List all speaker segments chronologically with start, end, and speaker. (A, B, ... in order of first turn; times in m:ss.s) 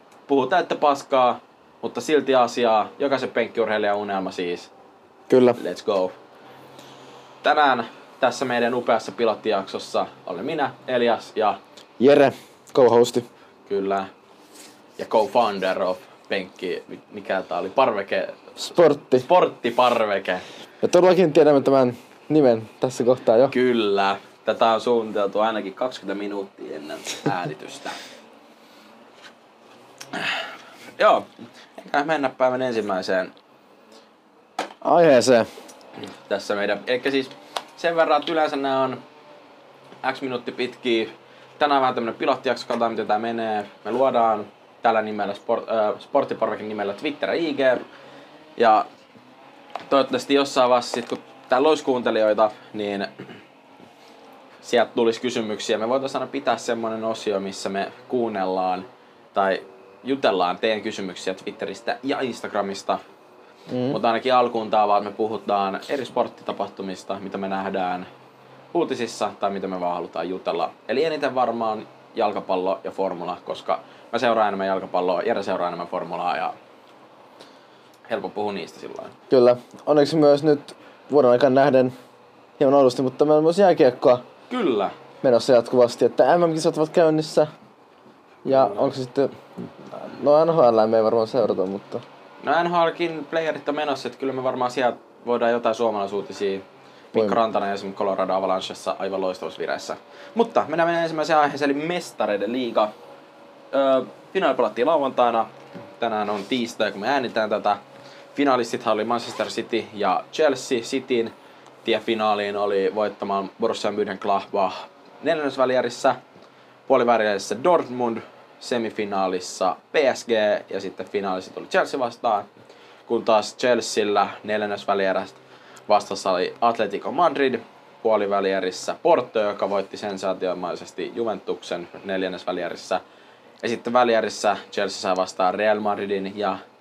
0:00.3-0:04.7 A
0:05.3-0:05.6 B
0:05.6-0:06.2 A
0:07.4-0:11.6 A
0:12.0-0:13.2 B
0:13.7-0:14.1 A
0:15.0-0:18.5 A
0:18.6-0:19.2 B
0:19.1-0:20.4 A
0:20.8-0:23.5 B
0:23.5-0:28.0 A
0:30.1-0:30.4 A
0:31.0-0:31.3 A
0:31.8-0:33.3 A
0:34.8-0:35.5 B
0:36.3-0:39.0 A
0:40.0-0:47.8 A
0:48.6-0:48.9 A
0:49.9-0:53.2 A
0:54.6-1:03.0 A
1:03.7-1:04.0 B
1:03.9-1:08.1 A
1:08.7-1:16.6 A
1:18.1-1:19.1 A
1:19.3-1:21.9 B
1:22.6-1:24.3 B
1:24.5-1:24.9 A
1:25.2-1:27.5 B
1:28.4-1:32.0 B
1:28.5-1:28.9 A
1:32.4-1:42.9 A
1:37.1-1:37.4 B
1:43.7-1:47.8 A
1:48.4-1:51.3 A
1:51.8-1:56.2 A
1:56.9-2:02.5 A
2:03.1-2:13.0 A
2:13.6-2:16.6 A